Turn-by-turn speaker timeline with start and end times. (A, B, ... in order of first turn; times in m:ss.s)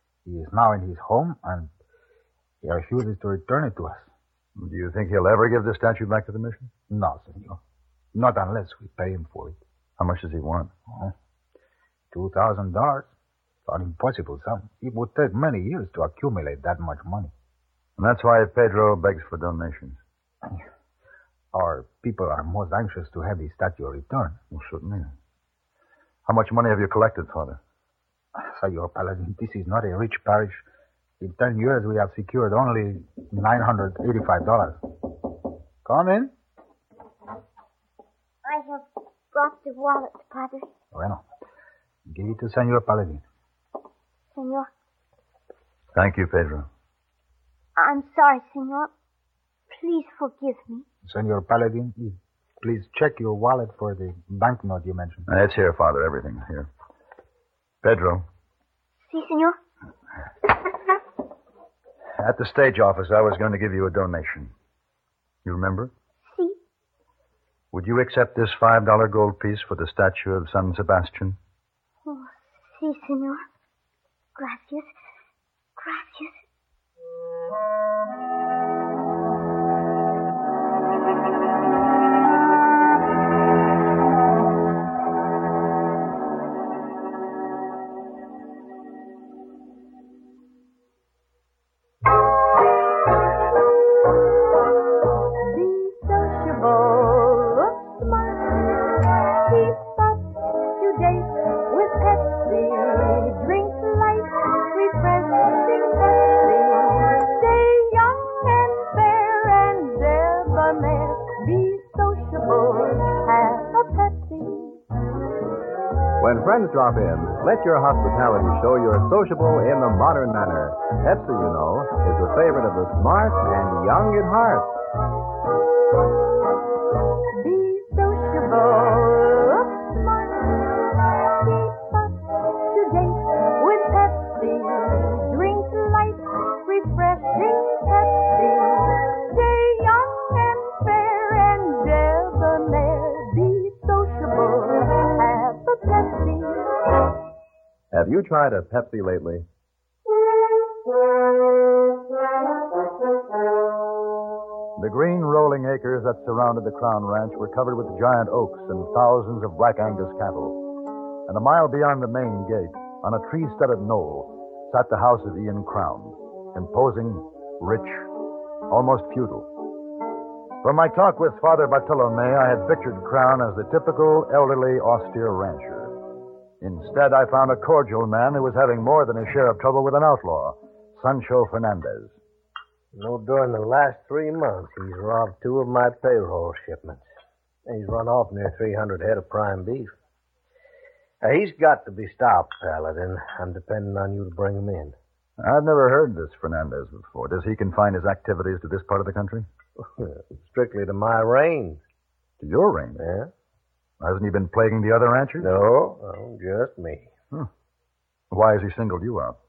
0:00.2-0:01.7 A
0:02.6-0:04.1 A
0:04.6-0:06.7 B
0:06.9-0:07.6 A
0:08.1-0:09.6 A
0:10.0-0:10.7 B
0:12.1-0:13.1 A
0:13.7-0:17.3 A
0:18.0-0:20.0 B
0:21.5-0:24.4 A
0:24.5-0:25.1 B
0:26.2-0:27.6 B
0:28.4-0:30.6 A
0:31.2-0:34.8 A
0:35.8-0:36.3 A
0:38.4-0:40.7 C
0:40.9-0:41.2 A
0:42.1-0:43.2 A
0:44.3-0:44.7 C
0:46.0-0:46.7 B
0:47.8-0:48.9 C
0:49.7-0:50.8 C
0:51.0-0:55.3 A
0:55.3-0:56.7 B
0:57.8-0:58.2 B
0:59.1-0:59.6 C
1:02.2-1:04.5 B
1:05.4-1:05.9 B
1:06.2-1:06.6 C
1:07.7-1:11.4 B
1:12.0-1:13.4 C
1:14.4-1:14.9 C
1:15.8-1:16.4 C
1:35.5-1:40.2 D
1:40.8-1:54.8 D
1:56.2-2:04.7 E
2:07.4-2:12.1 D
2:12.7-2:26.7 D
2:27.9-2:29.4 E
2:34.8-2:40.6 B
2:41.3-2:48.1 B
2:48.7-2:49.5 B
2:50.6-2:56.0 B
2:56.6-3:02.2 B
3:02.9-3:07.0 F
3:07.7-3:09.9 F
3:11.2-3:15.0 F
3:15.4-3:19.5 B
3:20.0-3:21.8 F
3:22.4-3:23.0 B
3:23.0-3:23.3 F
3:24.0-3:25.5 B
3:25.4-3:27.1 F
3:28.3-3:29.4 B